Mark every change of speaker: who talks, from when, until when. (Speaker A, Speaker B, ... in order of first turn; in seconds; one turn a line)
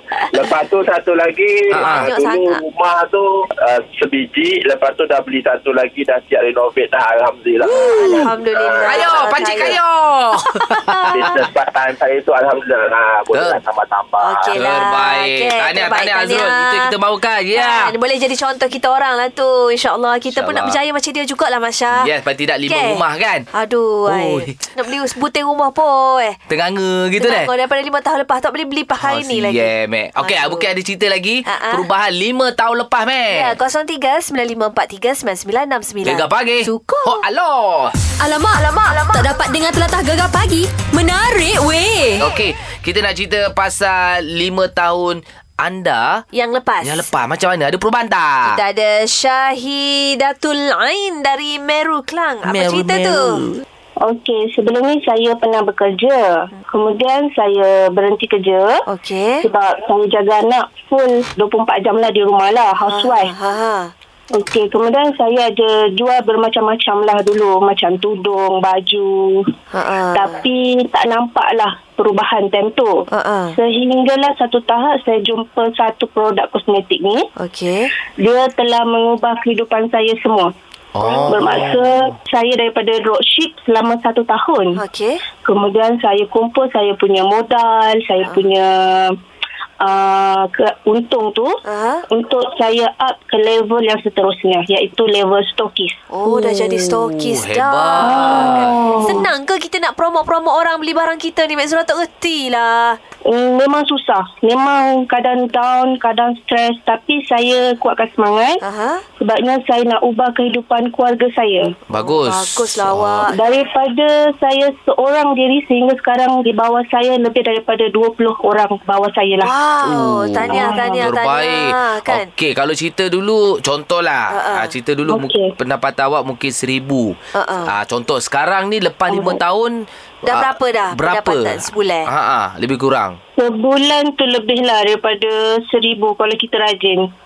Speaker A: 0.3-9.7
Speaker B: 1.7-2.1
Speaker C: 1.8-2.6
Speaker B: 7.6-11.4
Speaker C: 7.8-9.8
Speaker C: 10.5-11.4
Speaker A: 11.1-14.5
Speaker B: 13.3-13.6
Speaker C: 14.2-16.9
Speaker B: 14.5-17.9
Speaker C: 17.5-22.1
Speaker B: 20.3-20.8
Speaker B: 21.9-23.5
Speaker C: 22.7-26.4
Speaker B: 24.1-24.7
Speaker B: 26.5-27.5
Speaker C: 27.2-30.7
Speaker B: 29.0-33.6
Speaker C: 31.5-31.9
Speaker C: 33.3-37.2
Speaker B: 36.0-38.0
Speaker D: 38.2-42.2
Speaker B: 42.2-46.2
Speaker C: 46.3-47.1
Speaker B: 46.8-48.6
Speaker C: 48.5-53.3
Speaker B: 52.5-53.6
Speaker E: 54.0-58.7
Speaker C: 58.9-59.5
Speaker E: 59.4-63.3
Speaker C: 62.9-63.9
Speaker E: 64.3-69.5
Speaker C: 69.7-70.4
Speaker E: 70.1-77.3
Speaker C: 73.1-73.6
Speaker C: 77.4-77.9
Speaker E: 78.2-80.5
Speaker B: 81.0-81.9
Speaker C: 81.1-81.6
Speaker E: 81.1-84.8
Speaker C: 84.8-85.2
Speaker E: 85.5-89.2
Speaker E: 89.8-91.6
Speaker C: 91.7-92.0
Speaker E: 92.1-96.7
Speaker C: 96.1-103.0
Speaker B: 97.1-98.8
Speaker E: 98.0-99.3
Speaker E: 103.3-108.6
Speaker C: 108.6-109.0
Speaker E: 109.2-111.7
Speaker B: 111.9-113.3
Speaker C: 112.0-113.3
Speaker E: 113.3-119.5
Speaker C: 119.4-122.3
Speaker B: 119.8-133.2
Speaker E: 120.5-121.1
Speaker C: 124.3-124.7
Speaker E: 125.1-125.5
Speaker C: 127.3-127.7
Speaker E: 129.1-129.4
Speaker C: 130.3-132.1
Speaker E: 133.4-137.1